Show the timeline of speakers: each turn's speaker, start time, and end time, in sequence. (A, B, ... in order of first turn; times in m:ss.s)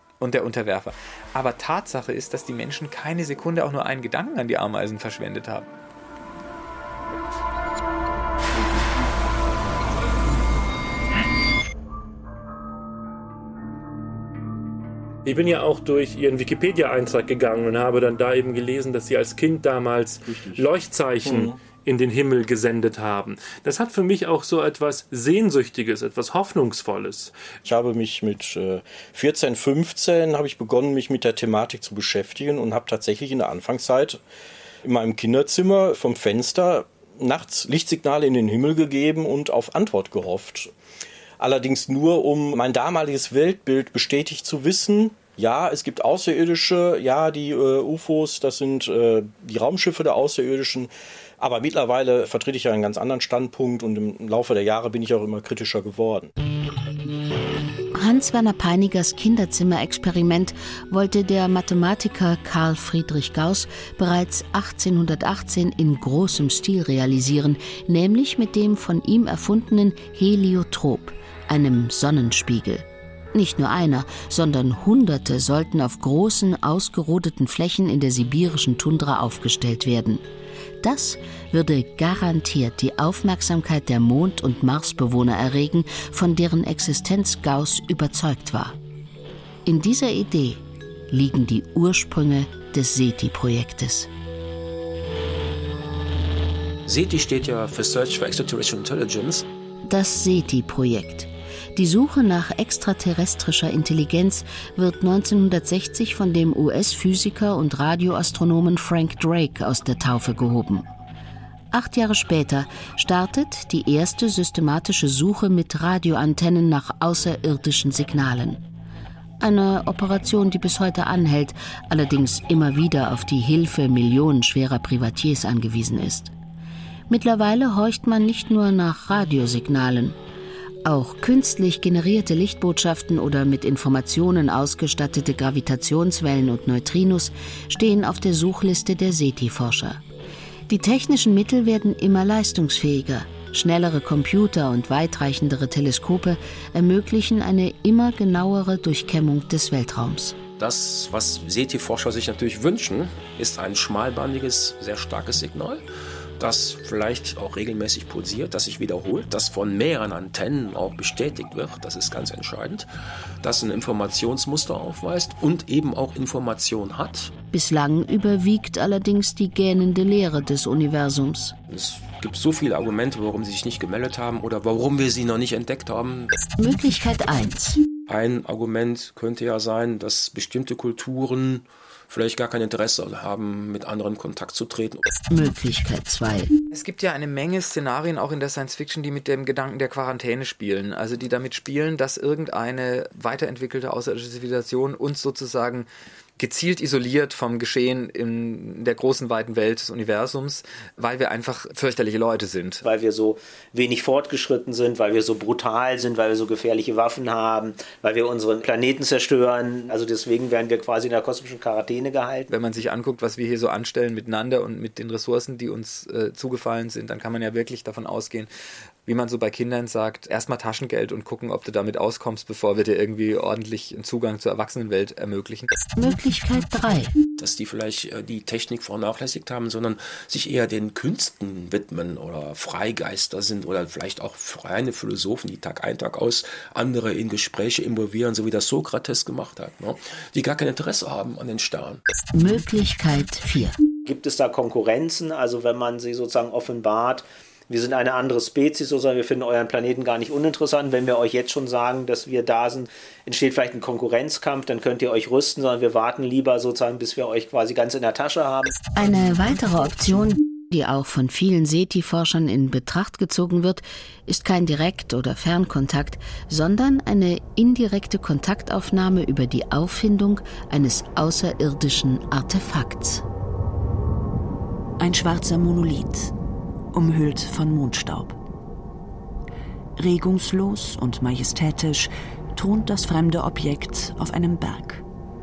0:00.2-0:05.6 A
0:15.2-0:27.5 B
0:20.3-0:20.6 C
0:21.2-0:21.6 C
0:27.6-0:34.2 C
0:34.8-0:40.7 C
0:41.4-0:56.3 C
0:57.9-1:20.2 D
1:20.8-1:28.8 D
1:29.6-1:30.6 D
1:31.1-1:34.1 D
1:36.8-1:39.4 E
1:39.8-1:50.8 D
1:51.7-1:58.6 D
1:59.4-2:06.3 D
2:07.1-2:10.2 D
2:10.8-2:20.0 D
2:20.7-2:30.4 D
2:30.6-2:35.8 E
2:36.4-2:42.9 E
2:43.4-2:47.3 E
2:47.5-2:51.5 D
2:51.7-2:56.4 E
2:56.6-2:57.8 D
2:58.1-3:05.1 E
3:05.3-3:06.5 D
3:06.7-3:22.8 A
3:22.8-3:32.5 F
3:32.5-3:38.5 A
3:39.0-3:45.7 A
3:46.0-3:47.2 D
3:47.4-4:02.0 E
4:02.3-4:03.8 D
4:04.0-4:18.8 F
4:18.9-4:33.2 D
4:35.0-4:36.3 G
4:36.9-4:38.4 G
4:40.0-4:45.0 G